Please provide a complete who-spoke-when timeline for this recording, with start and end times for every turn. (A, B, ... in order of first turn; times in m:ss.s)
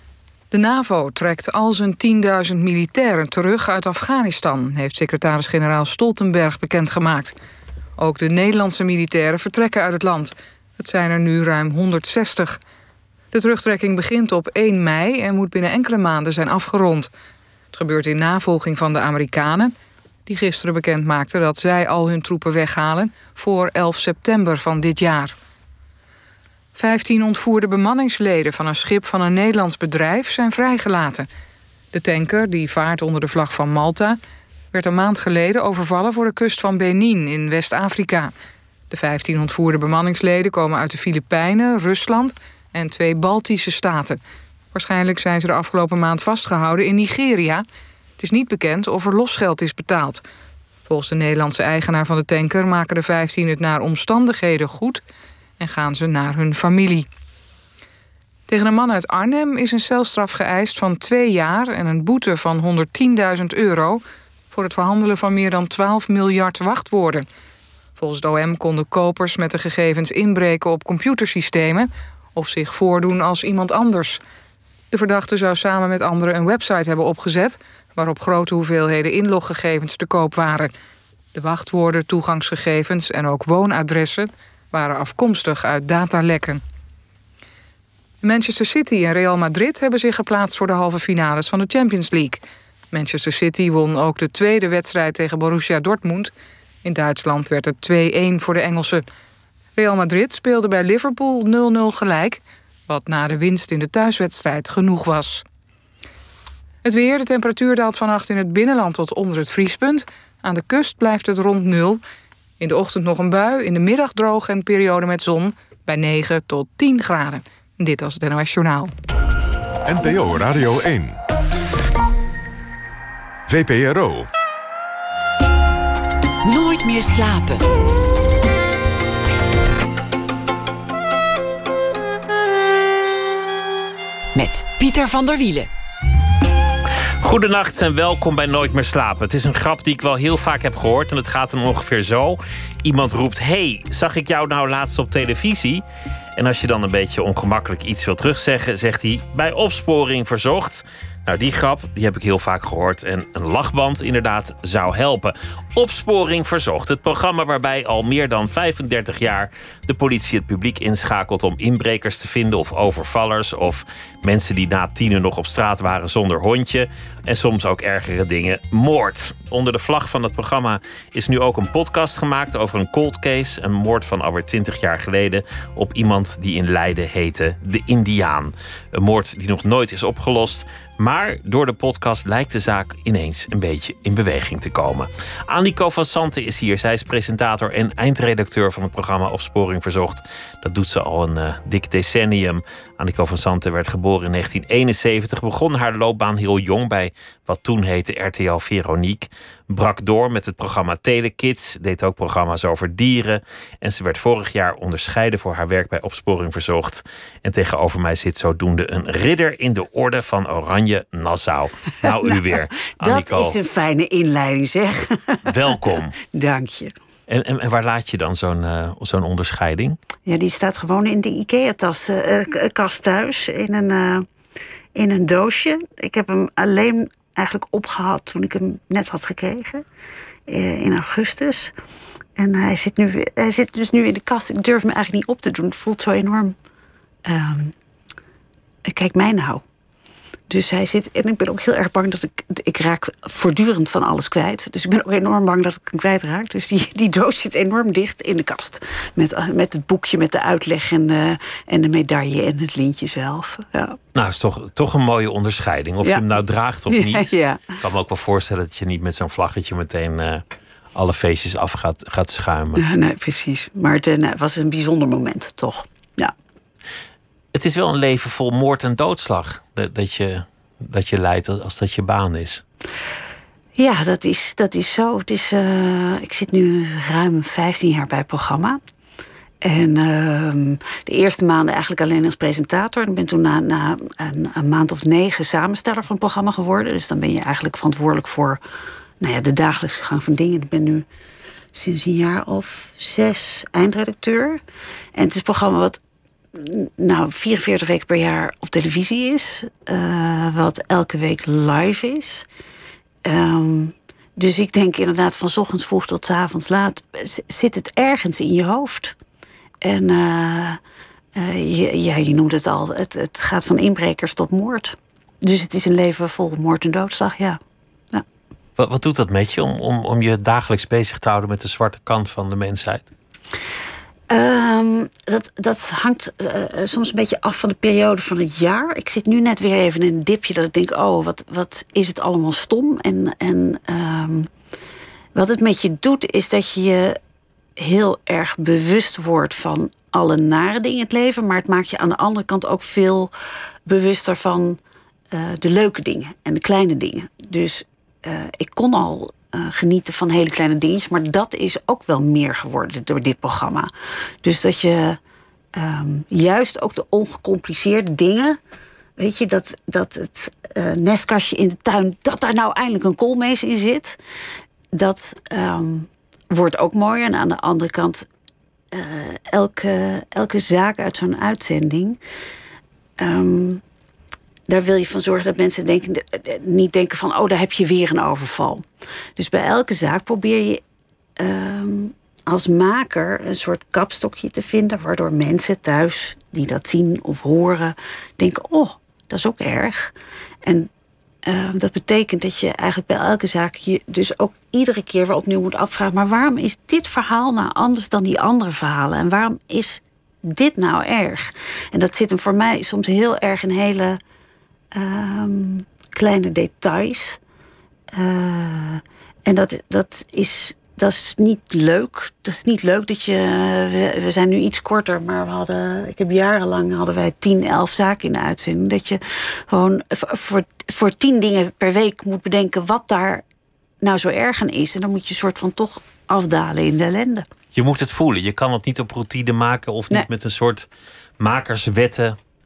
0:00.5-0:07.3 A
0:08.0-0:12.6 A
0:13.3-0:17.1 A
0:17.7-0:19.7 A
0:20.3-0:25.3 A
0:26.7-0:31.3 A
0:31.9-0:34.2 A
0:34.7-0:38.3 A
0:38.9-0:44.2 A
0:44.7-0:47.6 A
0:48.2-0:50.2 A
0:50.9-0:55.0 A
0:55.6-0:57.1 A
0:58.5-1:07.2 A
1:08.0-1:14.2 A
1:14.9-1:20.7 A
1:21.3-1:26.6 A
1:28.2-1:32.4 A
1:32.9-1:36.3 A
1:36.8-1:39.0 A
1:39.7-1:45.4 A
1:46.8-1:52.0 A
1:52.6-1:58.9 A
1:59.8-2:01.2 B
2:03.5-2:04.3 B
2:06.4-2:07.6 C
2:14.3-2:15.7 C
2:17.2-2:25.8 D
2:26.4-3:33.6 D
3:32.1-3:36.9 E
3:35.4-3:36.2 D
3:37.3-3:40.0 D
3:40.2-3:44.2 E
3:44.9-3:49.8 E
3:50.5-3:51.7 E
3:52.4-3:56.5 E
3:57.2-3:57.7 E
3:58.9-3:59.6 E
4:00.5-4:14.0 E
4:14.1-4:20.4 D
4:16.9-4:17.8 E
4:20.9-4:22.8 D
4:22.7-4:26.3 E
4:27.5-4:32.6 D
4:33.8-4:38.8 E
4:39.6-4:48.6 E
4:49.2-4:51.0 E
4:51.7-4:54.6 E
4:55.1-4:56.0 E
4:56.5-5:02.4 E
5:03.2-5:09.2 E
5:09.8-5:10.8 E
5:11.3-5:17.6 E
5:18.8-5:23.1 D
5:24.3-5:34.5 E
5:35.3-5:37.2 E
5:37.8-5:43.3 E
5:43.8-5:44.8 E
5:45.3-5:53.9 E
5:54.4-5:55.2 E
5:55.7-5:58.6 E
5:59.2-6:04.2 E
6:04.9-6:08.3 E
6:08.9-6:12.2 E
6:13.2-6:13.8 E
6:14.7-6:18.8 E
6:19.4-6:20.8 E
6:21.4-6:30.1 E
6:30.6-6:30.9 E
6:31.4-6:44.2 E
6:44.9-6:47.4 E
6:48.1-7:03.4 E
7:04.0-7:07.4 E
7:07.7-7:10.9 D
7:11.4-7:12.4 D